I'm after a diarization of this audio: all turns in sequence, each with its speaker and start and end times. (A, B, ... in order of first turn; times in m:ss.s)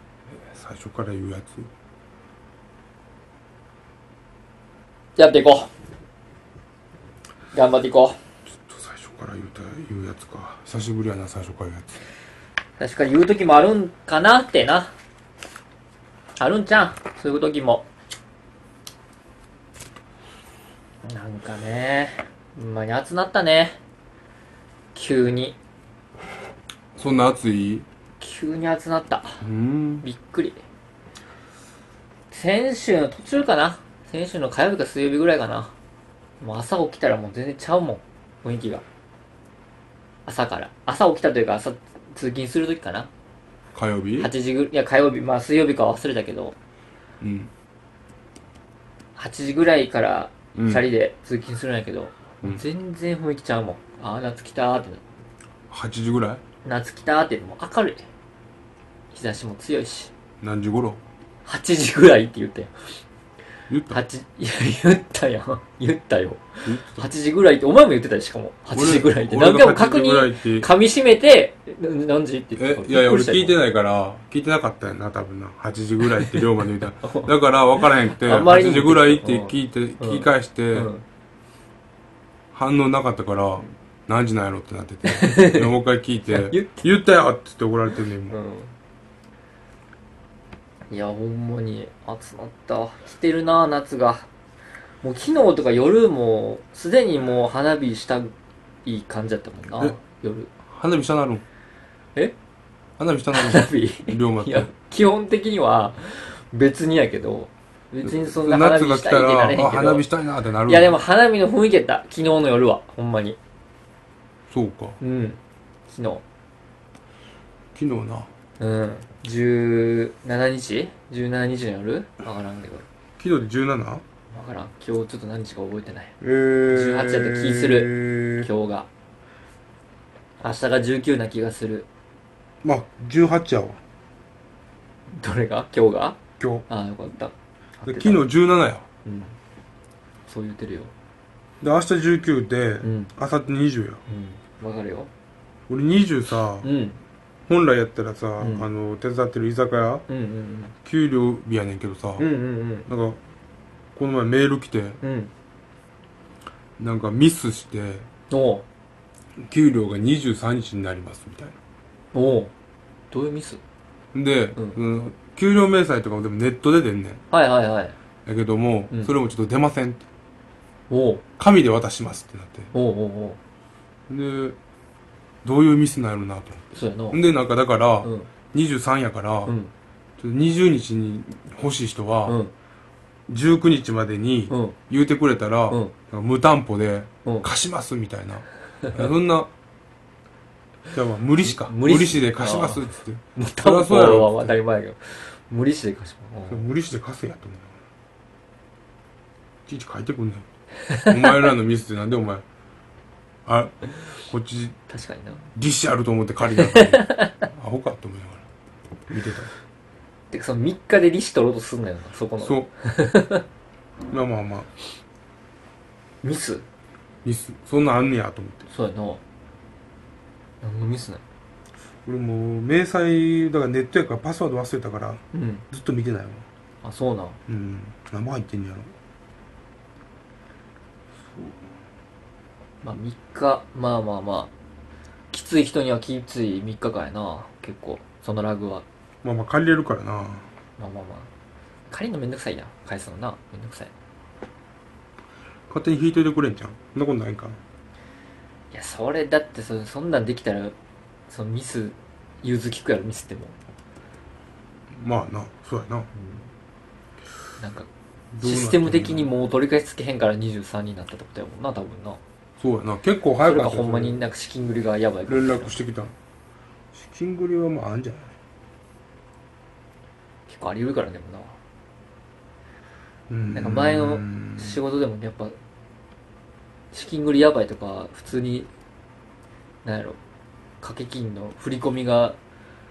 0:00.3-0:01.7 A
0:05.2-0:05.7 B
0:07.5-0:08.2 B
0:08.5-0:12.0 A
0:12.8-0:14.9 B
0:16.4-0:17.8 B
0:21.0-0:23.8 B
0:24.9-0:25.6 B
0:27.0-0:27.8 A
0:28.2-0:29.4 B
0:29.4-0:30.0 A
0:30.0-0:30.6 B
0:32.3-0:35.7 B
0:36.4-0:38.8 B
0:40.2-0:43.1 B
0:43.7-0:44.3 A
0:44.2-0:46.6 B
0:47.2-0:47.5 A
0:49.2-0:55.1 B
0:50.5-0:50.8 A
0:55.7-0:56.4 A
0:56.6-0:58.0 B
0:59.1-1:00.1 B
1:00.4-1:01.0 A
1:01.4-1:02.7 B
1:03.7-1:04.0 A
1:03.9-1:13.6 B
1:06.6-1:07.1 A
1:08.7-1:10.7 A
1:12.6-1:20.9 A
1:16.0-1:16.5 B
1:17.0-1:17.3 B
1:17.8-1:21.0 B
1:22.5-1:28.4 A
1:25.0-1:25.7 B
1:26.3-1:26.9 B
1:28.3-1:28.7 B
1:30.9-1:34.3 B
1:35.0-1:38.3 B
1:38.8-1:40.5 B
1:40.6-1:41.4 A
1:43.0-1:44.7 A
1:43.3-1:50.0 B
1:48.0-1:50.9 A
1:50.6-1:53.4 B
1:54.5-1:55.0 A
1:55.0-1:56.2 B
1:57.7-1:58.3 A
1:58.6-2:02.9 B
2:03.2-2:04.0 A
2:04.3-2:06.1 B
2:06.2-2:08.5 A
2:06.7-2:08.9 B
2:10.4-2:11.9 B
2:12.6-2:13.8 A
2:15.1-2:18.2 B
2:16.4-2:16.6 A
2:17.8-2:18.8 A
2:19.0-2:19.4 B
2:20.3-2:20.9 B
2:21.6-2:24.0 A
2:22.8-2:23.1 B
2:24.1-2:25.1 B
2:25.7-2:26.7 A
2:26.6-2:27.0 B
2:27.5-2:30.0 A
2:28.4-2:28.6 B
2:30.1-2:30.7 B
2:30.8-2:32.2 A
2:32.2-2:32.9 B
2:32.9-2:33.2 A
2:33.9-2:35.0 A
2:35.0-2:35.3 B
2:36.8-2:38.1 A
2:38.3-2:38.6 B
2:39.4-2:41.6 A
2:42.1-2:42.5 B
2:43.1-2:43.6 B
2:44.1-2:47.2 A
2:47.3-2:48.0 B
2:48.2-2:50.0 A
2:50.9-2:51.2 B
2:51.4-2:52.7 A
2:52.7-2:53.4 B
2:54.1-2:54.6 A
2:55.4-2:59.5 A
2:56.7-2:57.2 B
2:58.0-2:58.3 B
2:59.4-2:59.7 B
3:00.2-3:02.4 A
3:02.3-3:02.5 B
3:03.3-3:09.5 A
3:04.5-3:04.8 B
3:10.9-3:14.5 A
3:11.4-3:16.6 B
3:16.5-3:17.8 A
3:19.7-3:20.5 A
3:20.9-3:21.1 B
3:21.0-3:22.4 A
3:23.4-3:24.8 A
3:24.9-3:25.5 B
3:25.5-3:28.4 A
3:26.5-3:27.4 B
3:29.1-3:29.5 A
3:30.3-3:33.4 B
3:32.4-3:32.7 A
3:34.1-3:34.7 A
3:36.2-3:36.6 B
3:37.2-3:38.7 A
3:38.7-3:39.2 B
3:40.6-3:41.2 B
3:42.0-3:46.4 A
3:45.3-3:45.6 B
3:46.8-3:47.4 B
3:47.5-3:48.9 A
3:51.3-3:51.6 A
3:52.8-3:54.5 B
3:55.3-3:58.8 B
3:59.2-4:00.5 A
4:00.8-4:01.3 B
4:01.9-4:03.9 B
4:05.7-4:07.6 A
4:08.7-4:10.8 B
4:11.3-4:13.6 B
4:14.9-4:16.1 A
4:16.1-4:16.5 B
4:17.6-4:17.9 B
4:18.3-4:19.3 A
4:18.4-4:22.2 B
4:22.6-4:24.2 A
4:23.4-4:25.8 B
4:25.3-4:26.1 A
4:26.9-4:28.4 A
4:30.5-4:31.6 B
4:33.3-4:34.8 A
4:33.5-4:35.6 B
4:36.9-4:38.7 B
4:39.8-4:40.2 B
4:40.8-4:42.4 B